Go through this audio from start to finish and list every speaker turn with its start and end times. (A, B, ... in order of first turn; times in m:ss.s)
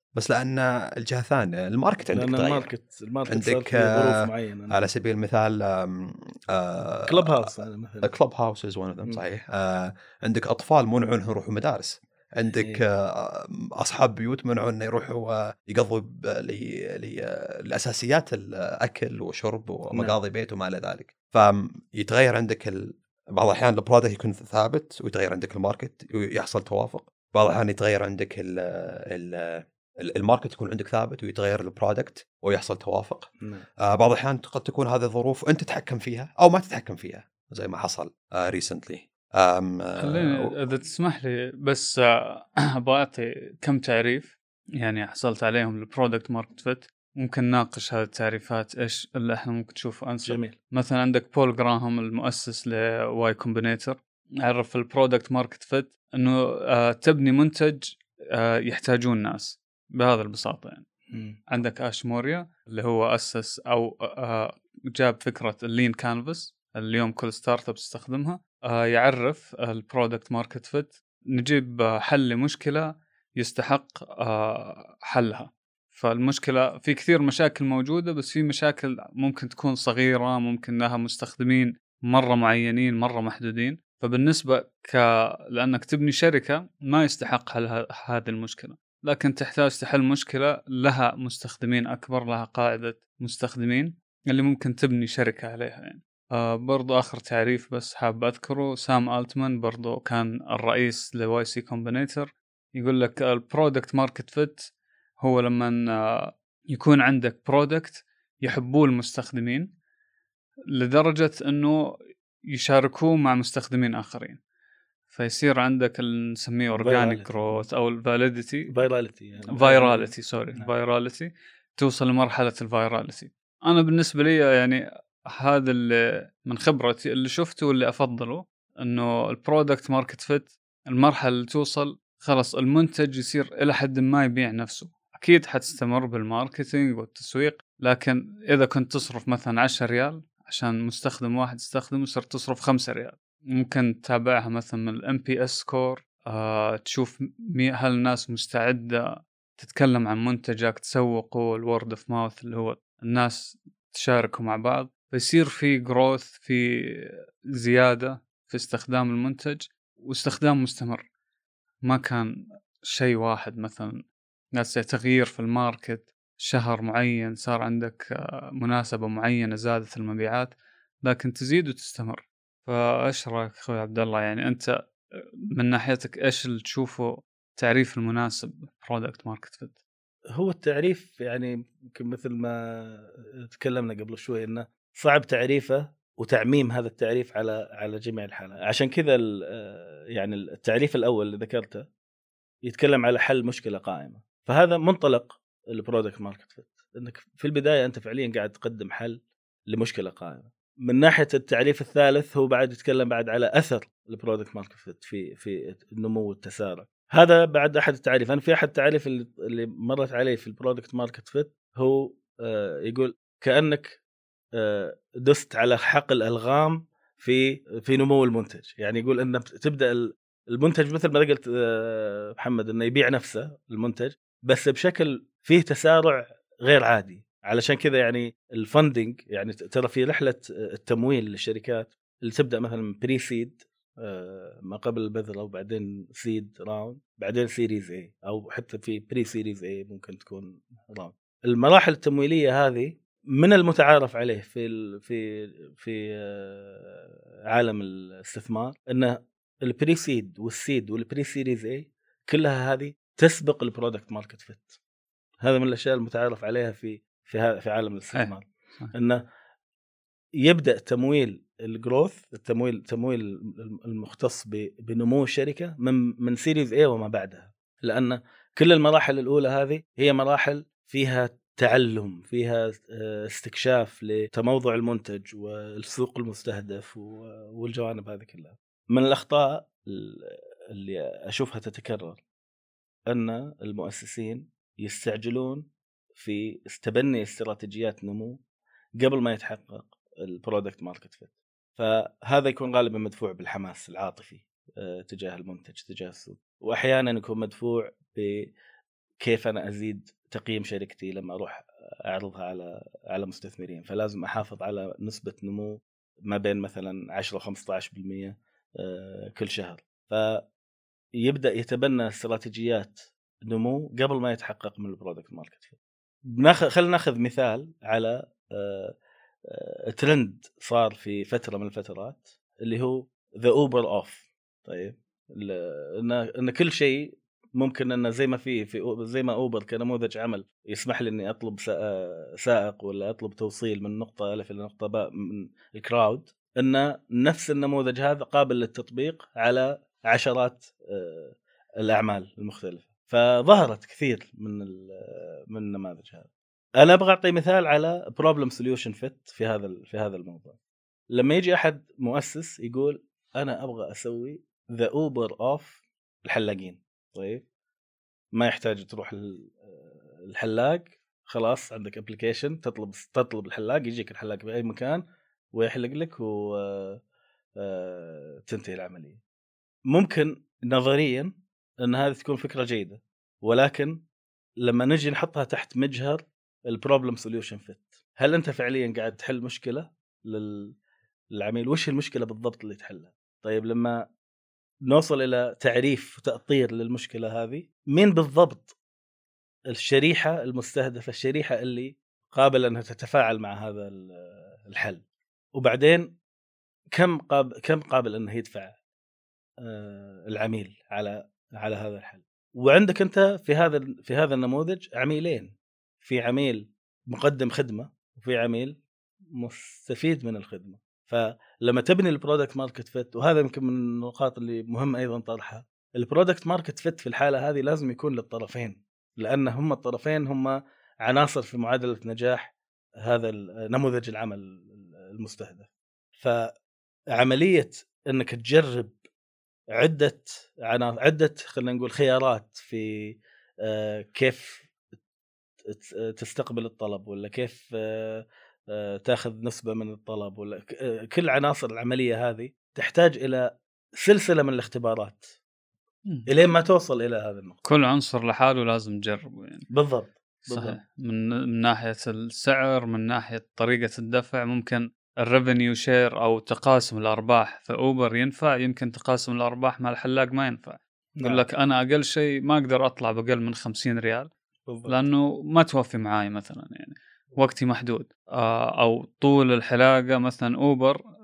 0:00.1-0:02.7 A
0:02.1-0:04.8 B
0:03.3-0:40.6 A
0:07.1-0:08.1 B
0:40.0-1:00.9 C
0:50.2-0:50.5 B
1:01.1-1:01.4 B
1:01.5-1:44.7 C
1:45.2-1:49.7 C
1:50.7-1:51.9 C
1:52.5-1:54.4 C
1:55.1-1:58.7 C
1:56.8-1:57.6 B
1:58.7-2:00.7 B
1:59.5-2:41.0 C
2:41.8-2:44.0 C
2:44.6-2:50.5 C
2:51.0-2:59.8 C
3:00.4-3:11.8 B
3:12.7-3:34.0 B
3:34.6-4:14.8 B
4:15.4-4:19.2 B
4:18.2-4:18.9 C
4:20.4-4:42.2 B
4:43.1-4:45.6 B
4:46.2-4:48.4 B
4:49.0-4:58.5 B
4:59.2-5:10.4 B
5:11.2-5:15.8 B
5:16.3-5:19.0 B
5:19.5-5:46.3 B
5:46.8-5:50.6 B
5:51.1-5:57.4 B
5:58.3-6:07.0 B
6:07.6-6:09.2 B
6:09.9-6:11.3 B
6:11.8-6:14.0 B
6:14.6-6:20.7 B
6:21.3-6:24.0 B
6:24.9-6:28.8 B
6:29.7-6:35.0 B
6:35.6-6:36.2 B
6:36.9-6:38.8 B
6:39.6-6:48.8 B
6:49.4-7:06.5 B
7:07.1-7:09.0 B
7:09.7-7:14.7 B
7:15.6-7:23.5 B
7:24.0-7:25.4 B
7:26.3-7:27.6 B
7:27.6-7:29.7 C
7:29.7-7:30.8 B
7:30.5-7:44.3 C
7:41.2-7:41.4 B
7:44.7-7:45.0 B
7:44.9-7:51.0 C